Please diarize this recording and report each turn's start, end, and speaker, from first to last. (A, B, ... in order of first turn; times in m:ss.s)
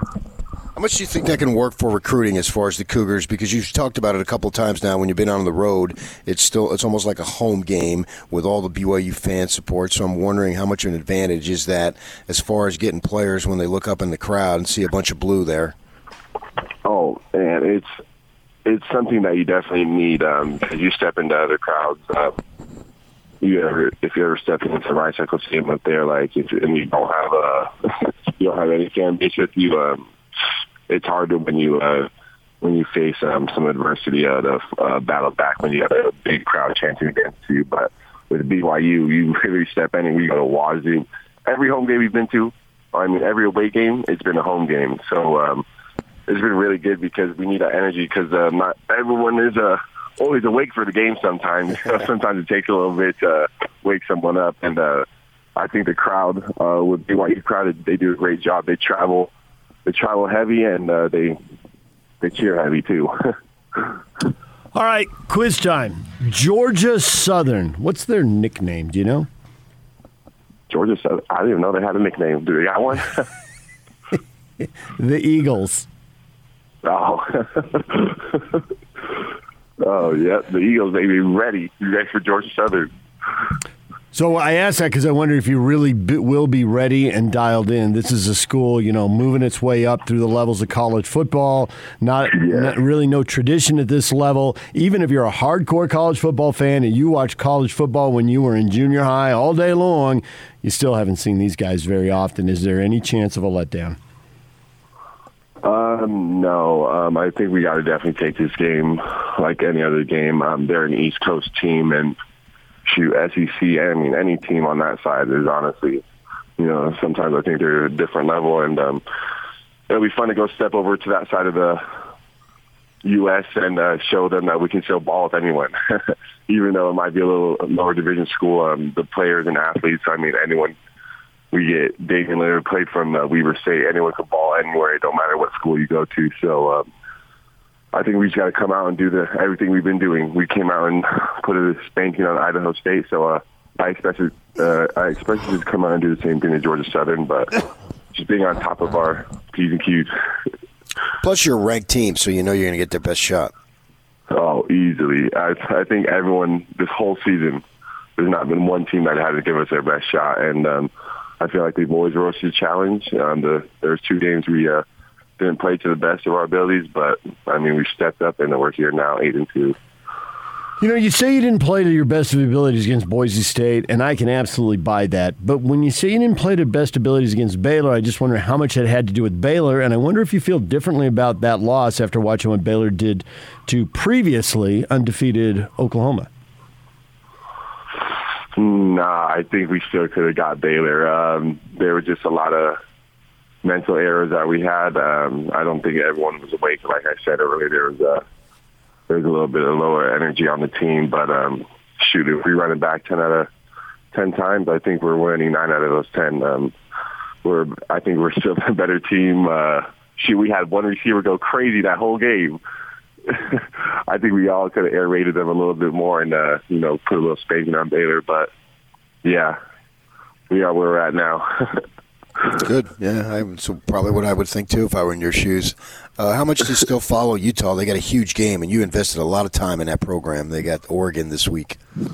0:00.8-0:15.8 A
0:16.8-0:18.0 B
0:18.6-0:22.4 B
0:23.4-0:30.1 B
0:30.9-0:32.1 B
0:32.6-0:45.7 B
0:46.3-0:59.3 B
0:59.8-1:01.4 B
1:02.2-1:03.1 B
1:04.7-1:09.3 C
1:10.7-1:13.3 B
1:14.9-1:15.9 C
1:16.8-1:19.3 B
1:19.8-1:22.9 B
1:24.1-1:44.0 C
1:32.3-1:32.8 B
1:45.6-1:52.2 B
1:52.9-1:56.0 B
1:56.6-1:59.0 B
1:59.9-2:01.8 B
2:03.0-2:10.8 B
2:11.5-2:16.9 B
2:17.9-2:30.1 B
2:31.2-2:33.5 A
2:34.3-2:37.6 B
2:38.2-2:44.8 B
2:45.4-2:49.8 B
2:50.8-3:06.3 C
3:08.6-3:12.8 B
3:13.6-3:18.2 B
3:19.1-3:23.5 B
3:24.1-3:26.7 B
3:27.4-3:32.6 B
3:33.2-3:38.5 B
3:39.2-3:39.6 B
3:40.5-3:41.8 B
3:42.5-3:51.8 A